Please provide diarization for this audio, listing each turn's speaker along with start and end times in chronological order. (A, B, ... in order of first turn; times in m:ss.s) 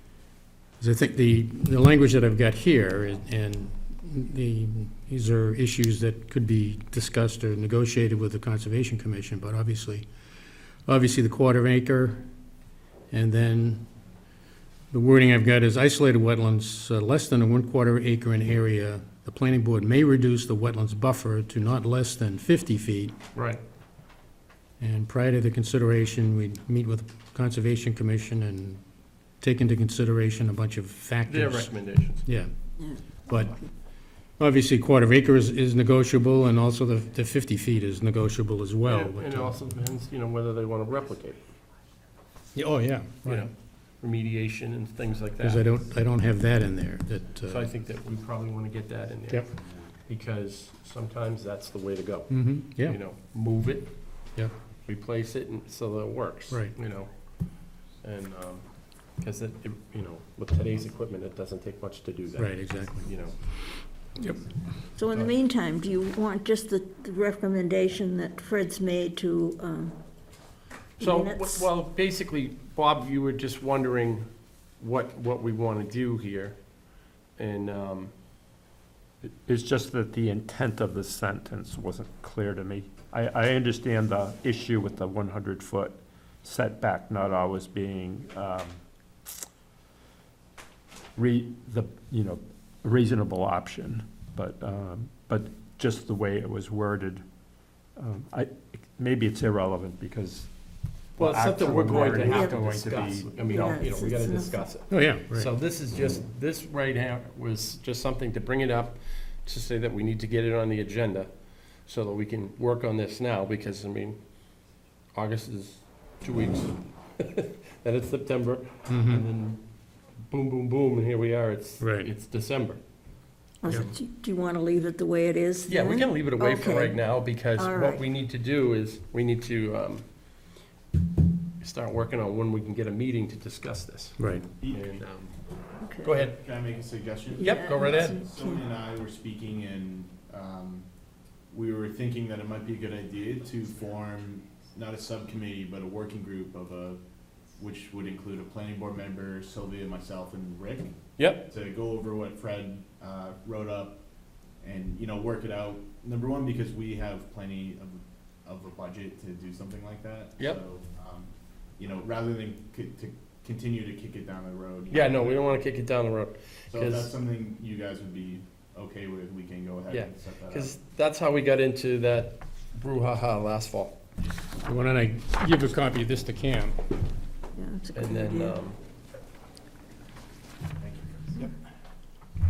0:00.8-0:10.1 A
0:10.9-0:12.2 A
0:13.1-0:13.8 A
0:14.9-0:23.2 A
0:23.4-0:23.6 B
0:24.8-0:28.8 A
0:29.4-0:32.5 A
0:31.3-0:32.3 B
0:33.3-0:33.6 A
0:34.1-0:39.6 A
0:38.8-0:41.4 B
0:42.5-0:43.5 A
0:43.2-0:45.8 B
0:45.4-0:47.7 A
0:47.4-0:54.1 B
0:52.3-0:53.0 A
0:54.8-0:57.1 B
0:56.5-0:56.7 A
0:57.9-1:05.3 B
1:02.4-1:03.7 A
1:05.0-1:11.7 C
1:11.0-1:18.1 B
1:19.2-1:28.8 D
1:31.2-1:37.2 D
1:38.0-1:40.5 D
1:41.2-1:44.2 D
1:41.2-1:54.2 B
1:42.2-1:42.7 C
1:43.3-1:44.6 C
1:44.9-1:45.5 A
1:55.1-1:59.6 B
1:58.9-1:59.2 A
2:00.2-2:02.8 B
2:01.8-2:02.1 A
2:03.6-2:08.0 C
2:03.6-2:03.9 B
2:05.7-2:10.1 B
2:11.6-2:15.1 B
2:14.2-2:14.5 A
2:14.6-2:15.0 E
2:15.8-2:16.2 C
2:16.0-2:16.4 B
2:16.1-2:20.9 E
2:17.3-2:18.6 C
2:17.4-2:18.2 B
2:21.5-2:27.0 E
2:27.6-2:30.9 E
2:31.2-2:31.5 B
2:31.4-2:34.0 E
2:34.6-2:45.6 E
2:44.9-2:47.1 B
2:46.7-2:50.8 E
2:49.9-2:54.0 B
2:54.6-2:56.8 A
2:57.6-2:58.6 C
2:57.9-2:58.8 B
3:00.8-3:01.5 E